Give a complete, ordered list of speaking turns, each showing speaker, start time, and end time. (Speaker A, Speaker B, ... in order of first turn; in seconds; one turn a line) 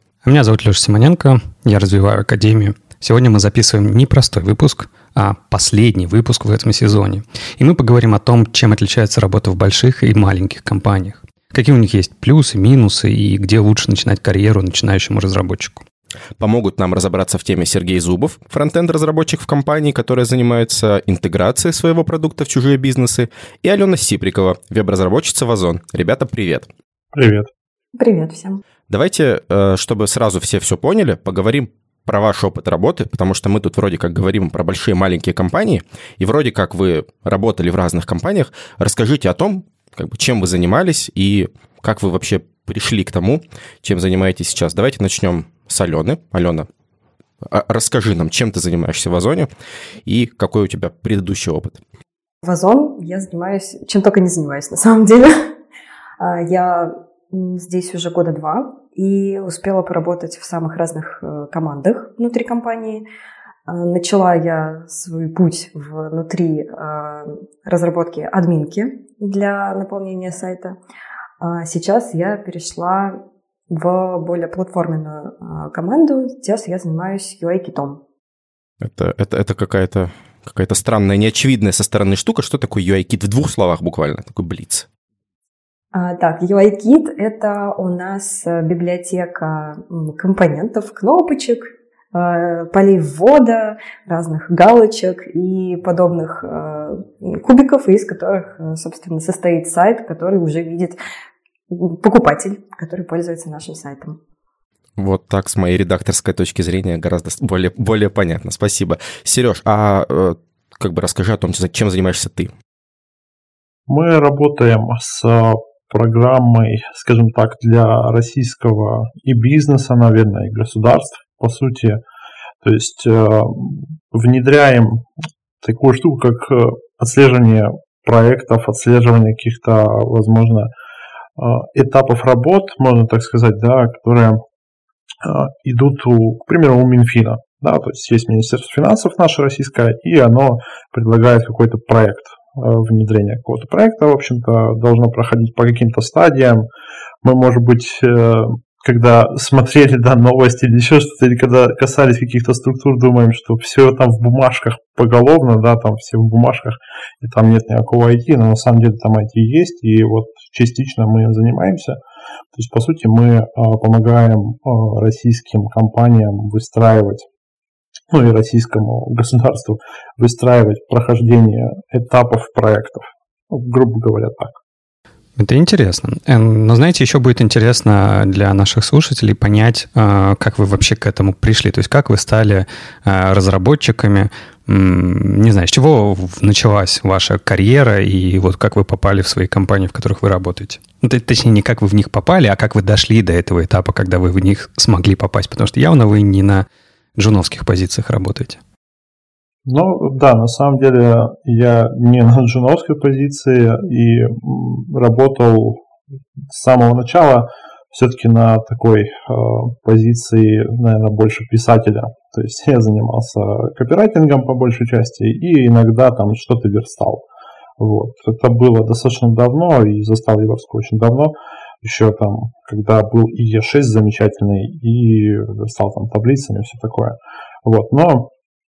Speaker A: 0.2-15.8
Speaker B: 16.4-26.7
Speaker C: 27.1-27.5
Speaker D: 28.0-28.6
Speaker B: 28.9-46.7
Speaker B: 47.4-49.5
Speaker B: 50.0-51.8
Speaker D: 52.4-55.4
Speaker D: 56.2-63.0
Speaker D: 63.7-70.8
Speaker D: 71.4-73.2
Speaker D: 73.7-78.0
Speaker B: 78.8-84.8
Speaker D: 85.9-101.0
Speaker D: 101.7-104.2
Speaker B: 105.0-112.5
Speaker C: 113.9-122.0
Speaker C: 122.6-125.0
Speaker C: 125.6-130.7
Speaker C: 131.4-134.4
Speaker C: 135.2-146.7
Speaker C: 147.2-162.0
Speaker C: 162.5-167.2
Speaker C: 168.1-174.6
Speaker A: 175.4-198.6
Speaker C: 199.7-205.8
Speaker C: 206.5-217.2
Speaker C: 217.8-228.3